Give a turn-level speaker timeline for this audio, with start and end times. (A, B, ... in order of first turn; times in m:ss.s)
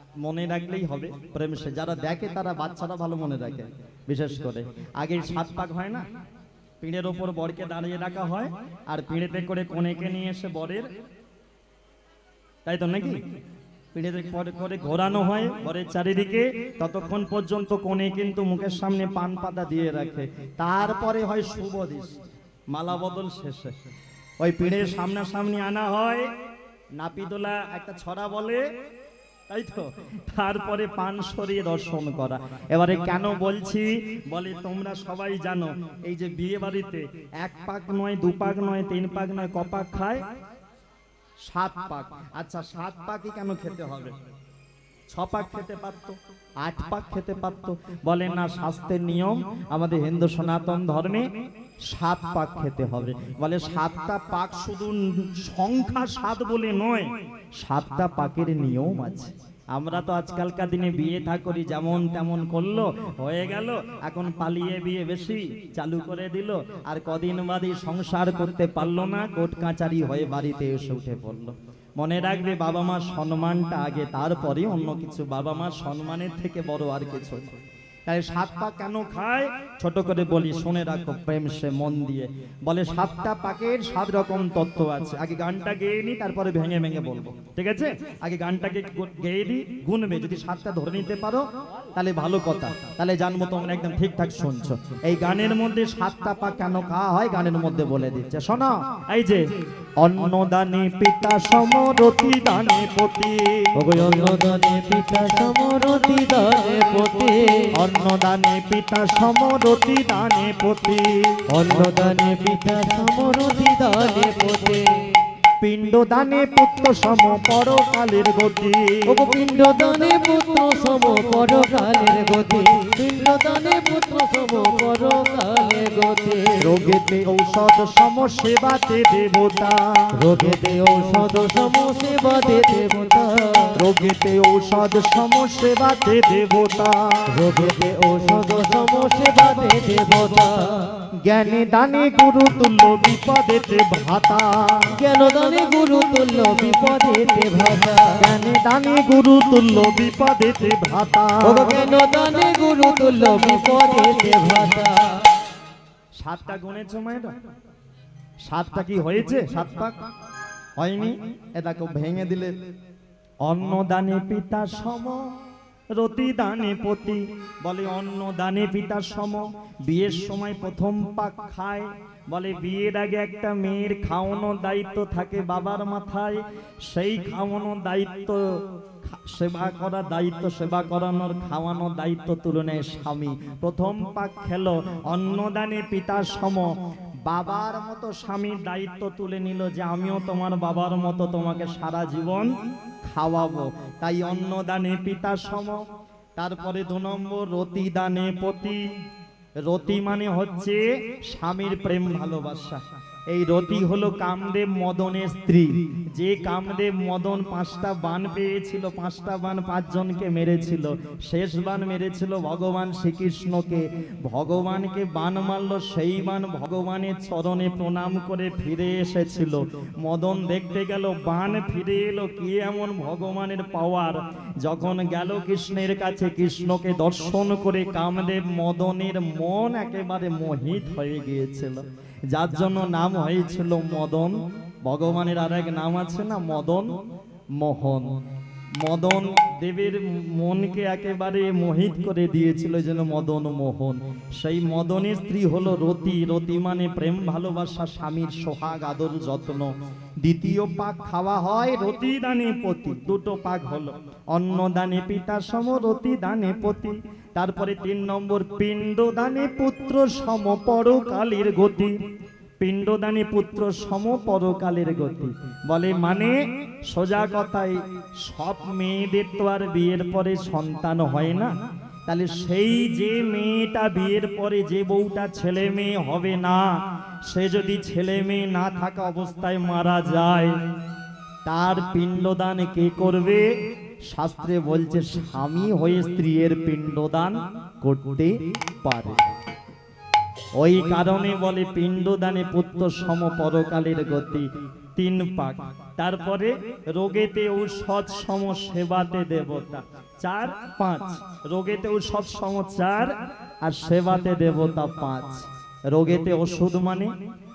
0:00.2-0:06.0 A
0:06.8-0:10.9 A
0:12.6-0:13.2 A
0:13.9-0:22.2 A
0:22.7-0:23.7 A
0:24.4-0:26.3 A
0:27.0-0:28.6 A
0:29.5-0:40.2 A
0:41.5-0:44.1 A
0:45.1-0:51.2 A
0:51.9-1:17.4 A
1:18.1-1:39.4 A
1:40.0-1:43.8 A
1:43.7-1:47.7 B
1:47.7-1:51.4 A
1:51.5-1:55.2 B
1:55.6-1:59.3 A
1:59.1-2:06.8 B
2:06.6-2:10.2 A
2:10.2-2:13.8 B
2:13.7-2:17.4 A
2:17.3-2:21.0 B
2:21.2-2:25.0 A
2:24.9-2:28.2 B
2:28.2-2:31.8 A
2:31.4-2:35.3 B
2:36.2-2:37.3 A
2:38.4-2:40.0 A
2:40.8-2:42.5 A
2:43.4-2:45.2 A
2:46.0-3:06.7 A
3:07.2-3:12.5 A
3:13.0-3:15.8 A
3:16.4-3:18.8 A
3:19.6-3:56.9 A
3:57.6-3:58.1 A
3:58.8-4:21.9 A
4:22.6-4:31.5 A
4:32.1-4:36.7 A
4:37.3-4:40.5 A
4:41.4-4:43.5 A
4:44.0-4:49.2 A
4:50.6-5:07.1 A